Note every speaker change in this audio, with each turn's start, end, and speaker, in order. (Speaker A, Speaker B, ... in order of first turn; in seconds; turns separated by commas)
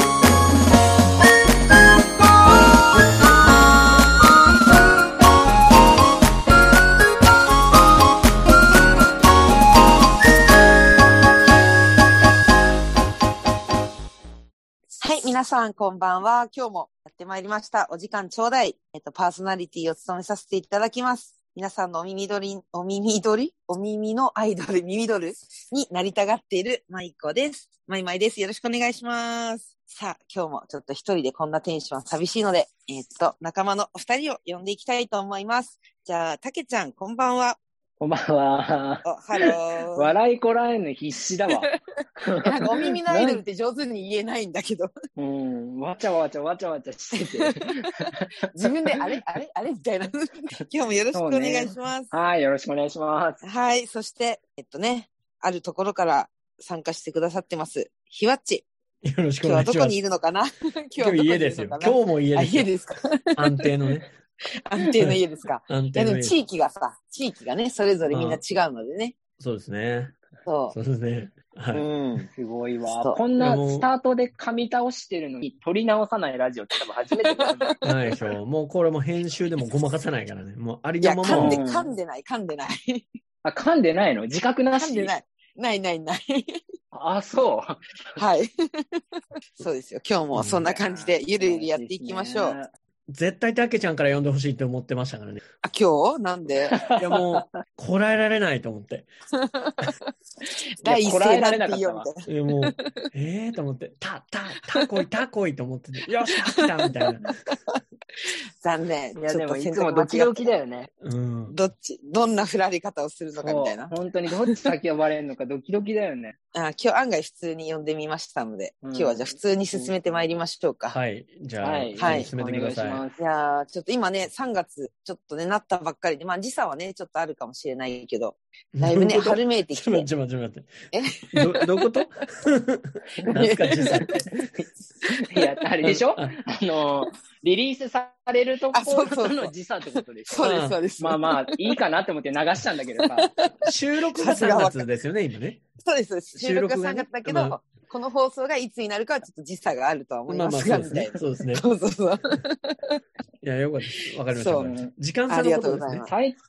Speaker A: 15.0-37.6, Speaker B: 38.0-41.7, Speaker A: 39.0-40.1, Speaker A: 41.5-41.7, Speaker B: 42.2-43.4, Speaker A: 42.4-44.9, Speaker B: 45.1-48.3, Speaker A: 47.4-47.7, Speaker A: 48.5-52.1, Speaker B: 51.1-53.4, Speaker A: 53.4-58.6, Speaker C: 59.0-60.0, Speaker A: 59.4-63.4, Speaker C: 61.0-62.7, Speaker C: 63.4-64.1, Speaker A: 64.7-69.2, Speaker C: 65.0-66.4, Speaker C: 68.1-68.4, Speaker C: 69.4-70.2, Speaker A: 70.5-70.8, Speaker C: 70.7-71.8, Speaker A: 71.7-72.3, Speaker B: 72.3-77.8, Speaker A: 72.9-73.2, Speaker C: 73.4-73.9, Speaker C: 77.8-81.6, Speaker A: 81.0-83.1, Speaker B: 81.3-81.9, Speaker B: 83.4-85.1, Speaker A: 84.7-86.6, Speaker B: 86.9-88.2, Speaker A: 88.2-92.6, Speaker C: 90.3-90.6, Speaker B: 90.6-92.7, Speaker C: 93.1-95.4, Speaker A: 95.6-96.8, Speaker B: 96.8-97.2, Speaker C: 96.9-99.1, Speaker A: 99.4-100.0, Speaker A: 100.8-102.8, Speaker B: 100.8-102.1, Speaker C: 102.2-107.3, Speaker A: 106.5-106.8, Speaker A: 108.6-110.5, Speaker B: 109.1-110.9, Speaker C: 111.0-111.6, Speaker A: 111.5-113.9, Speaker B: 113.3-116.4, Speaker A: 116.5-121.0, Speaker B: 118.8-120.3, Speaker C: 120.9-123.0, Speaker B: 121.6-123.2, Speaker A: 122.0-122.3, Speaker A: 123.2-130.1, Speaker C: 128.7-134.3, Speaker A: 130.9-131.6, Speaker A: 133.3-134.1, Speaker B: 135.2-143.3, Speaker C: 135.8-136.3, Speaker A: 138.7-139.5, Speaker A: 140.3-141.6, Speaker C: 140.4-140.8, Speaker A: 143.0-143.6, Speaker C: 143.6-145.6, Speaker A: 144.2-144.8, Speaker A: 145.8-153.0, Speaker C: 146.3-147.6, Speaker C: 150.3-151.7, Speaker C: 153.4-156.1, Speaker A: 154.3-154.7, Speaker A: 155.3-156.1, Speaker B: 156.0-156.4